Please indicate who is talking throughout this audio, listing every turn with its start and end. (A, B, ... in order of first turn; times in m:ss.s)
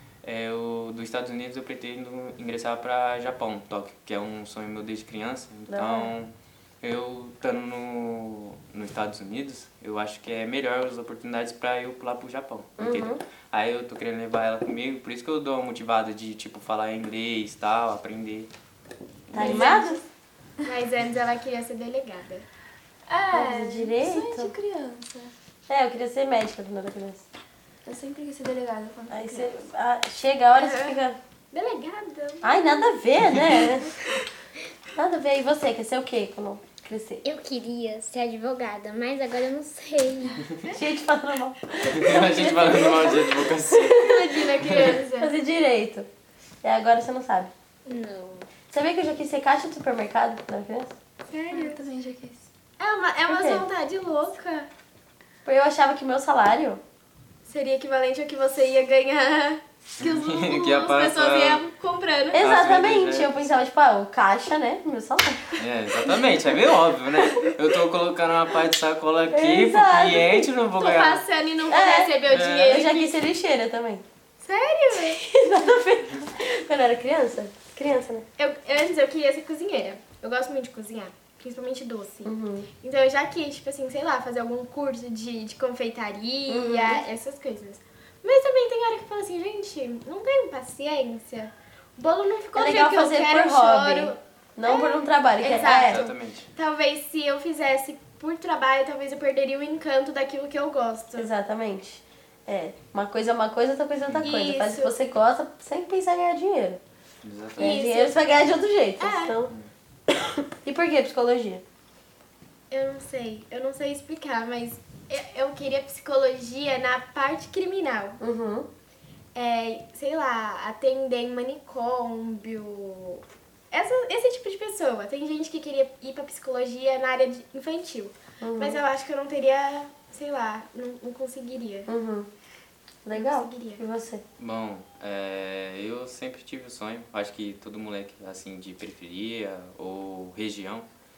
0:00.2-0:06.3 A
0:05.7-0:06.1 B
0:06.8-0:18.5 A
0:12.8-0:13.2 B
0:19.3-0:19.8 A
0:19.3-0:20.0 B
0:19.4-0:20.0 C
0:20.6-0:22.4 C
0:23.1-0:23.9 C
0:23.3-0:24.5 B
0:23.9-0:25.3 D
0:25.7-0:27.2 B
0:27.8-0:29.6 D
0:29.1-0:31.2 B
0:30.6-0:31.0 C
0:31.5-0:32.9 C
0:32.4-0:34.0 B
0:35.0-0:37.2 B
0:37.2-0:40.5 E
0:40.7-0:46.1 B
0:41.9-0:44.0 A
0:43.9-0:45.3 C
0:44.6-0:44.9 A
0:46.6-0:47.5 B
0:47.8-0:48.5 E
0:48.7-0:50.9 B
0:51.3-0:51.8 C
0:51.5-0:52.5 D
0:52.8-0:54.7 C
0:53.3-0:53.6 B
0:55.4-0:56.8 B
0:57.4-1:02.4 C
1:00.0-1:01.6 A
1:02.3-1:05.6 B
1:02.4-1:03.4 A
1:05.6-1:11.2 A
1:09.3-1:10.5 B
1:10.8-1:13.1 C
1:11.7-1:14.0 B
1:12.3-1:12.8 A
1:14.4-1:15.2 C
1:15.1-1:18.2 B
1:18.4-1:41.3 C
1:22.2-1:22.7 B
1:26.5-1:27.0 B
1:32.5-1:36.0 B
1:35.6-1:36.5 A
1:41.2-1:46.8 B
1:44.2-1:44.9 C
1:47.2-1:47.8 A
1:47.6-1:49.5 B
1:47.6-1:48.2 C
1:49.0-1:49.3 C
1:50.1-1:51.6 B
1:52.7-1:58.2 C
1:58.2-1:58.7 B
1:59.3-2:11.9 C
2:08.4-2:08.8 B
2:11.9-2:12.3 B
2:13.0-2:14.2 B
2:13.1-2:13.8 C
2:14.4-2:20.8 A